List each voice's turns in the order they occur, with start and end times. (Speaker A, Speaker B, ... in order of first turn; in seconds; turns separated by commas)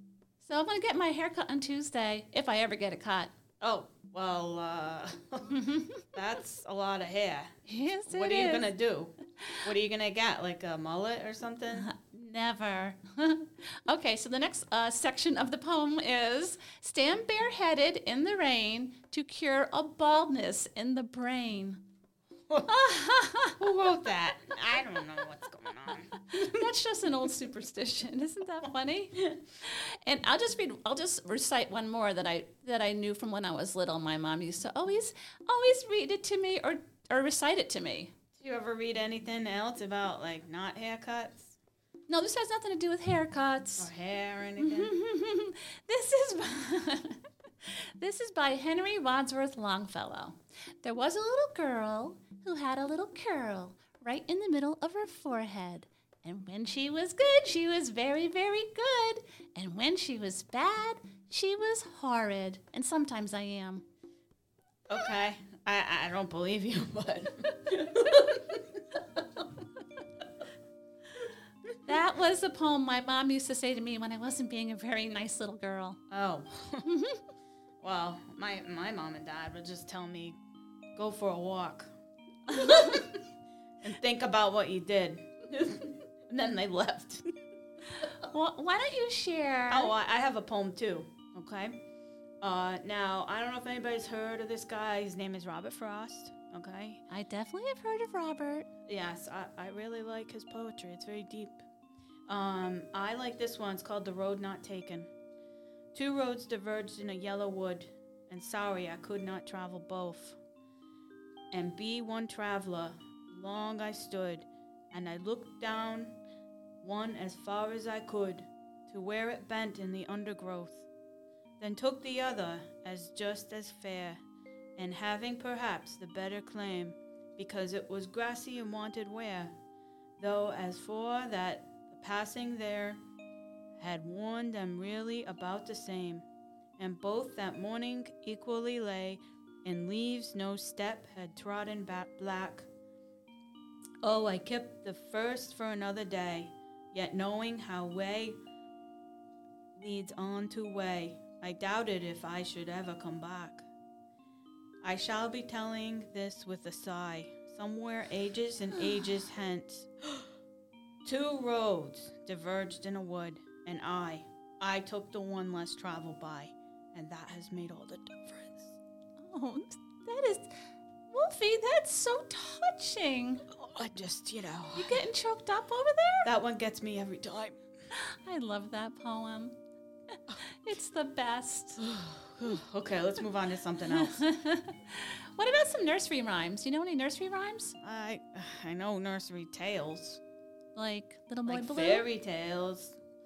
Speaker A: 0.4-3.3, Speaker B: 3.6-7.5, Speaker A: 5.5-6.1, Speaker A: 7.7-8.7, Speaker B: 8.1-11.9, Speaker A: 11.7-21.8, Speaker A: 22.6-23.6, Speaker B: 23.6-26.7, Speaker A: 26.3-38.1, Speaker B: 38.4-41.5, Speaker A: 42.1-43.9, Speaker B: 43.8-44.9, Speaker A: 44.6-63.8, Speaker B: 64.9-68.6, Speaker A: 71.8-76.0, Speaker B: 76.1-76.9, Speaker A: 76.9-77.2, Speaker B: 77.8-80.4, Speaker B: 81.0-81.9, Speaker B: 82.5-83.2, Speaker A: 82.5-83.1, Speaker B: 83.8-87.3, Speaker A: 88.0-89.9, Speaker B: 89.7-91.8, Speaker B: 92.4-97.0, Speaker A: 97.1-98.7, Speaker B: 98.9-101.6, Speaker B: 102.3-105.1, Speaker B: 105.9-110.4, Speaker B: 111.5-116.2, Speaker B: 116.8-120.9, Speaker B: 121.6-124.2, Speaker B: 124.8-129.5, Speaker B: 130.2-133.0, Speaker B: 133.8-136.2, Speaker B: 136.8-142.7, Speaker B: 144.0-148.4, Speaker B: 149.8-153.7, Speaker B: 154.8-159.9, Speaker B: 161.0-168.8, Speaker A: 169.2-170.5, Speaker A: 171.1-173.4, Speaker B: 173.5-175.0, Speaker A: 174.7-176.3, Speaker B: 176.2-177.6, Speaker A: 177.9-179.6, Speaker A: 180.3-181.8, Speaker B: 181.8-184.2, Speaker A: 183.9-187.8, Speaker B: 187.8-190.2, Speaker A: 190.7-192.1, Speaker B: 191.5-192.9